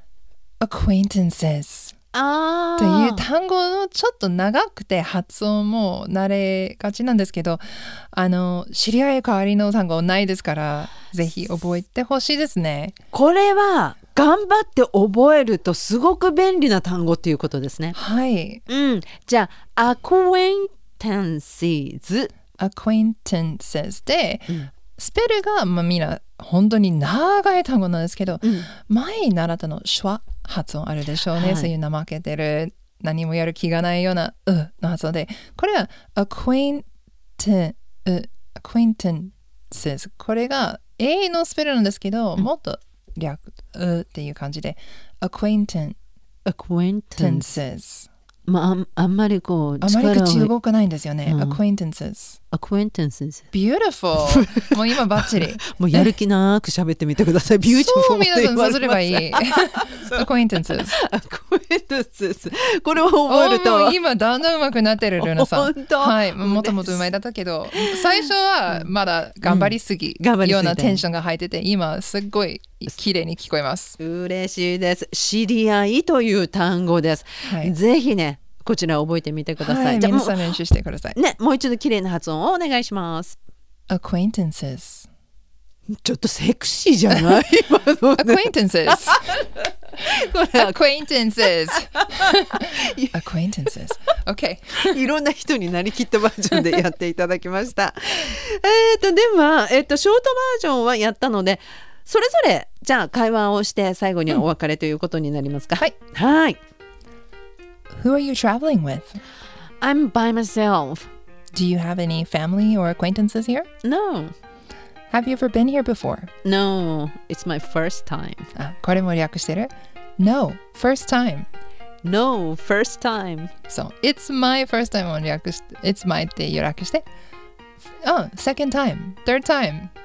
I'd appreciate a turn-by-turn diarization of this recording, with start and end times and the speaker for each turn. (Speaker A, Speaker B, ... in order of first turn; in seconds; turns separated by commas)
Speaker A: 0.6-1.9, Speaker B: 2.1-3.2, Speaker A: 2.8-12.9, Speaker B: 13.1-18.0, Speaker A: 17.9-18.6, Speaker B: 18.7-22.3, Speaker A: 22.6-36.8, Speaker B: 28.4-28.7, Speaker B: 31.3-31.7, Speaker A: 37.4-46.0, Speaker B: 46.5-47.6, Speaker A: 47.2-48.1, Speaker B: 48.5-50.5, Speaker A: 49.8-52.4, Speaker B: 51.2-51.6, Speaker B: 52.5-53.5, Speaker A: 53.5-56.1, Speaker B: 54.3-64.0, Speaker A: 57.7-61.0, Speaker A: 63.3-74.0, Speaker B: 65.2-67.1, Speaker B: 67.7-68.9, Speaker B: 69.4-71.0, Speaker B: 74.0-80.5, Speaker A: 77.4-77.7, Speaker A: 79.6-81.2, Speaker B: 81.1-83.4, Speaker A: 83.9-85.1, Speaker B: 85.9-90.7, Speaker A: 88.1-89.3, Speaker A: 90.5-95.0, Speaker B: 92.0-93.2, Speaker B: 94.8-106.6, Speaker A: 107.9-109.2, Speaker B: 109.8-111.1, Speaker A: 111.5-113.7, Speaker B: 113.8-114.3, Speaker A: 115.1-116.3, Speaker B: 116.4-118.5, Speaker A: 118.5-121.5, Speaker B: 122.0-123.5, Speaker A: 123.7-127.0, Speaker A: 128.0-129.9